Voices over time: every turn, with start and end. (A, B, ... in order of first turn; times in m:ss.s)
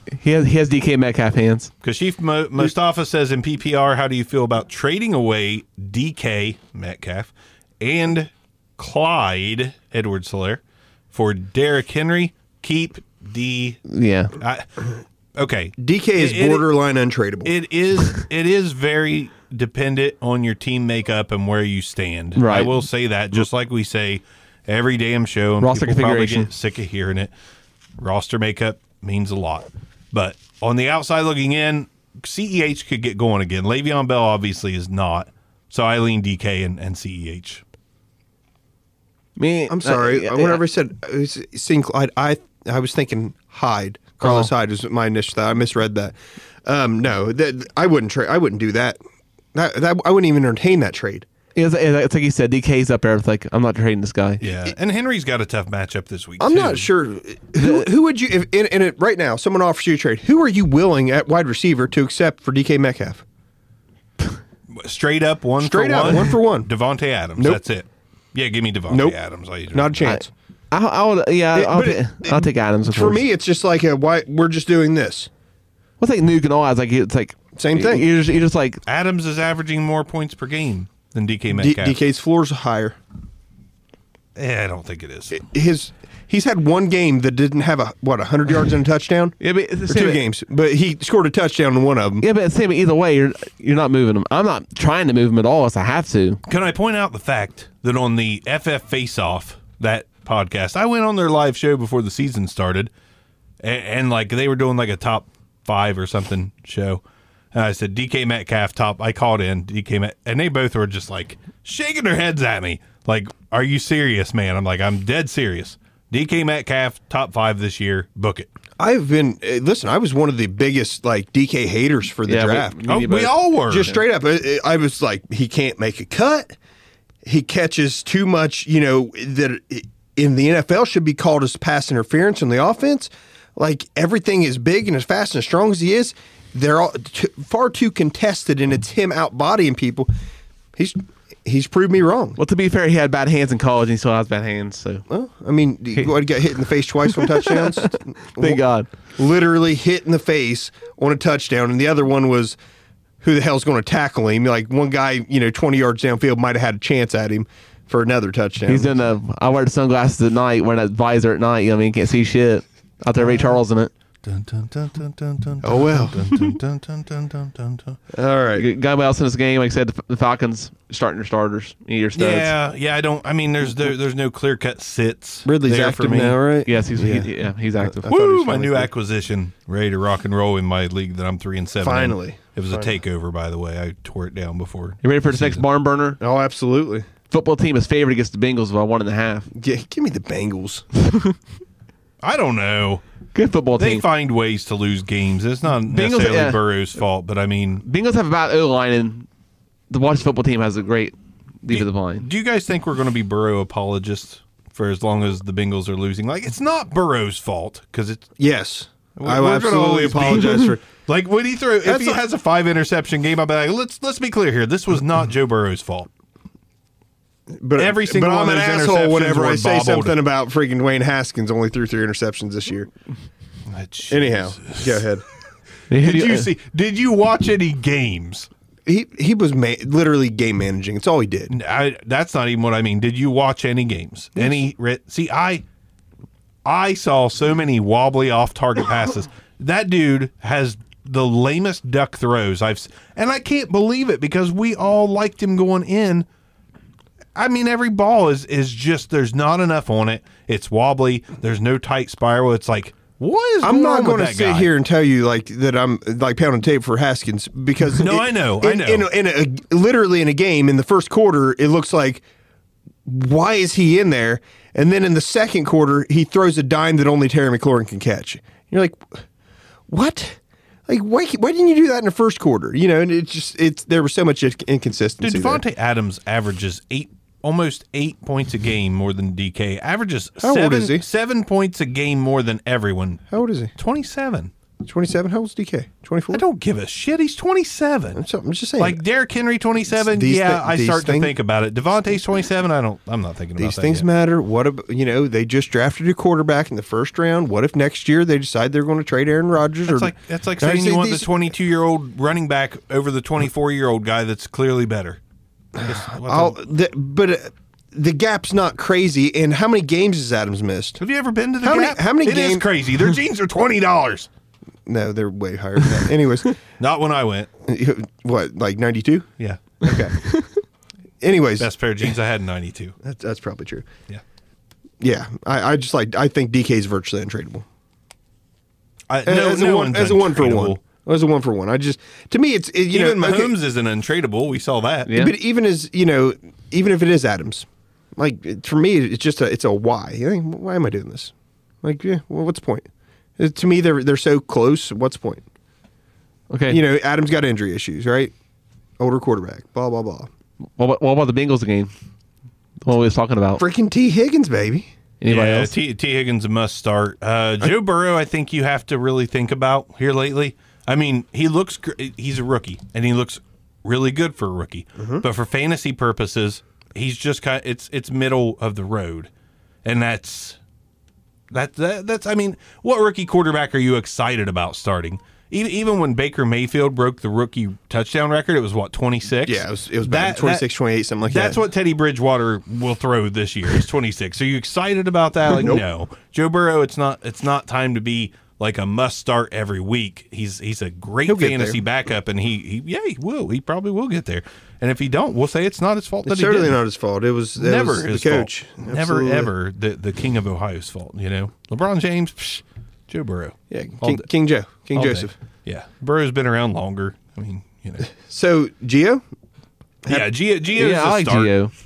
0:00.1-0:01.7 A
0:01.8-0:13.8 B
0:13.9-0:14.3 A
0:14.4-0:16.6 B
0:15.8-0:17.5 C
0:17.4-0:27.3 B
0:22.4-0:22.8 A
0:25.6-0:26.5 A
0:28.0-0:37.6 B
0:39.4-0:40.6 A
0:39.7-0:49.0 C
0:44.2-0:44.5 A
0:49.5-0:51.2 C
0:51.6-0:54.4 A
0:54.4-0:56.9 B
0:56.4-1:03.2 C
0:57.6-0:57.9 A
1:04.8-1:10.0 B
1:05.6-1:06.7 C
1:08.9-1:09.2 C
1:09.7-1:10.3 C
1:10.7-1:13.2 A
1:11.5-1:15.3 C
1:16.0-1:18.8 A
1:17.6-1:18.0 C
1:18.8-1:22.0 B
1:21.5-1:23.0 C
1:24.4-1:25.4 B
1:25.3-1:32.2 C
1:29.4-1:30.2 A
1:32.2-1:36.4 A
1:36.5-1:42.9 B
1:43.6-1:47.0 B
1:47.5-1:58.5 B
1:58.8-2:02.8 C
2:02.3-2:04.0 A
2:02.9-2:03.9 B
2:03.7-2:06.5 C
2:07.2-2:20.1 C
2:20.8-2:22.4 C
2:22.4-2:25.0 A
2:25.1-2:28.6 C
2:27.1-2:28.9 A
2:29.2-2:32.6 C
2:33.2-2:39.0 C
2:38.7-2:43.9 A
2:44.2-2:48.0 B
2:45.6-2:46.2 C
2:48.1-2:48.6 C
2:48.6-2:52.5 A
2:52.2-2:56.4 B
2:55.4-2:57.3 C
2:56.6-2:58.8 A
2:57.8-2:58.6 C
2:58.0-3:05.6 B
3:01.8-3:03.0 C
3:05.0-3:06.2 A
3:06.2-3:07.1 C
3:07.3-3:09.5 A
3:09.5-3:10.8 C
3:11.0-3:11.3 A
3:12.2-3:13.0 B
3:13.3-3:14.0 A
3:13.8-3:17.8 B
3:15.9-3:16.6 A
3:17.8-3:19.3 A
3:19.9-3:22.3 A
3:21.7-3:28.3 B
3:28.4-3:30.9 C
3:29.2-3:36.1 B
3:31.8-3:32.2 C
3:37.5-3:42.9 C
3:37.8-3:40.2 B
3:43.7-3:45.0 B
3:44.1-3:45.2 C
3:45.9-3:46.5 A
3:45.9-3:48.5 B
3:48.8-3:51.5 C
3:51.5-3:55.6 B
3:56.6-4:06.3 B
4:07.3-4:14.7 B
4:13.6-4:22.2 C
4:18.0-4:19.0 B
4:23.0-4:29.2 C
4:29.9-4:35.6 C
4:35.2-4:43.2 B
4:40.4-4:41.0 C
4:43.3-4:43.7 C
4:43.8-4:44.5 B
4:44.8-4:46.4 C
4:46.3-4:48.2 B
4:48.1-4:49.0 C
4:48.8-4:54.0 B
4:49.9-4:51.3 C
4:53.6-5:01.3 C
4:59.8-5:05.2 B
5:05.8-5:06.6 B
5:05.8-5:11.0 C
5:11.0-5:14.3 B
5:11.6-5:12.6 C
5:14.8-5:16.5 C
5:16.8-5:17.5 B
5:17.7-5:19.3 C
5:19.4-5:19.8 B
5:19.8-5:20.2 C
5:21.2-5:22.1 C
5:21.6-5:23.0 B
5:23.0-5:23.9 C
5:25.0-5:27.6 C
5:29.1-5:30.8 B
5:29.2-5:33.5 C
5:32.9-5:35.1 B
5:35.1-5:35.3 A
5:35.1-5:45.4 C
5:46.5-5:46.8 A
5:46.7-5:48.3 C
5:49.0-5:50.3 C
5:50.8-5:51.9 A
5:52.8-5:53.6 A
5:53.6-5:54.9 C
5:55.2-5:55.7 A
5:55.3-6:09.3 B
6:05.0-6:05.2 C
6:09.8-6:10.6 B
6:11.5-6:20.6 B
6:19.4-6:21.6 C
6:21.2-6:36.8 B
6:25.5-6:25.8 C
6:31.2-6:31.8 C
6:36.2-6:39.5 C
6:37.6-6:44.2 B
6:43.7-6:45.3 C
6:44.9-6:48.1 B
6:48.1-6:49.2 C
6:50.1-6:51.5 B
6:50.7-6:51.7 A